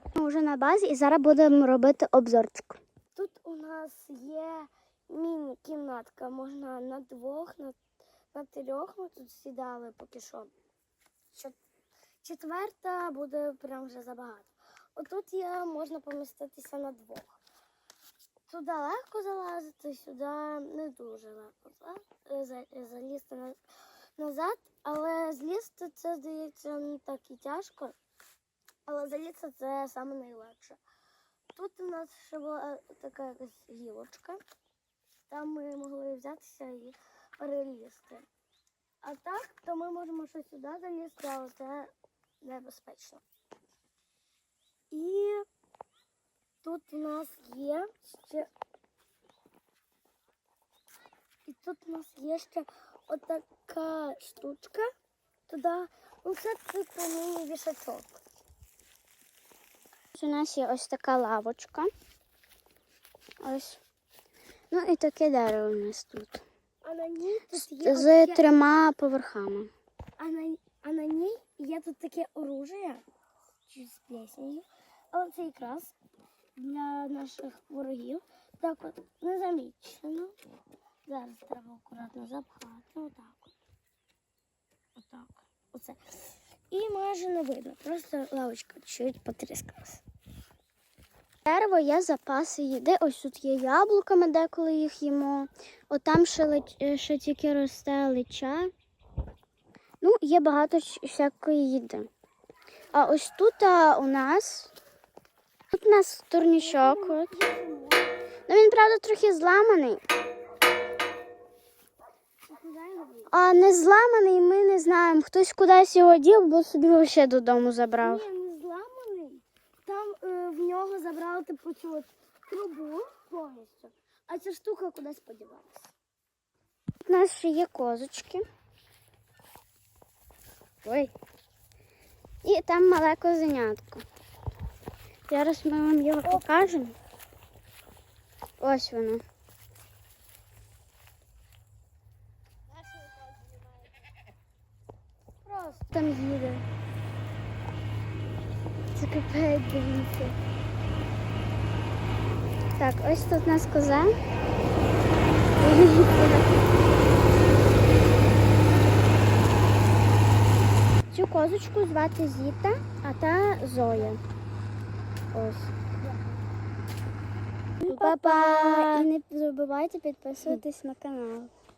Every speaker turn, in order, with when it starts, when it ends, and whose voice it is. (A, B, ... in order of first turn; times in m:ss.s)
0:00.2-0:02.8 A
0:03.2-0:07.8 B
0:08.3-0:10.5 B
0:12.2-0:17.4 B
0:18.5-0:23.6 B
0:24.2-0:28.0 B
0:28.9-0:30.8 B
0:31.6-0:34.4 B
0:35.3-0:38.3 B
0:39.0-0:41.9 B
0:42.4-0:43.2 B
0:44.9-0:45.5 B
0:46.6-0:48.5 B
0:51.5-0:54.9 B
0:55.5-0:58.2 B
1:00.2-1:01.9 A
1:03.4-1:03.8 A
1:04.7-1:06.4 A
1:06.8-1:08.6 B
1:07.5-1:09.7 A
1:10.2-1:13.0 B
1:13.7-1:16.0 B
1:16.6-1:20.3 B
1:21.1-1:23.5 B
1:25.0-1:30.0 B
1:31.5-1:38.7 A
1:40.0-1:42.1 A
1:42.9-1:44.7 A
1:45.7-1:47.3 A
1:46.6-1:48.1 B
1:48.5-1:50.0 A
1:52.5-1:53.3 B
1:53.3-1:58.2 A
1:58.0-2:05.9 B
2:07.1-2:08.4 A
2:10.8-2:11.1 A
2:12.4-2:14.0 A
2:15.3-2:17.0 A
2:16.3-2:16.7 B
2:18.6-2:19.2 A
2:25.4-2:25.9 B
2:25.9-2:26.6 A
2:29.0-2:30.4 A
2:32.8-2:34.1 A
2:35.6-2:36.6 A
2:41.1-2:44.2 A
2:45.3-2:45.7 A
2:47.8-2:49.1 B
2:47.8-2:51.5 A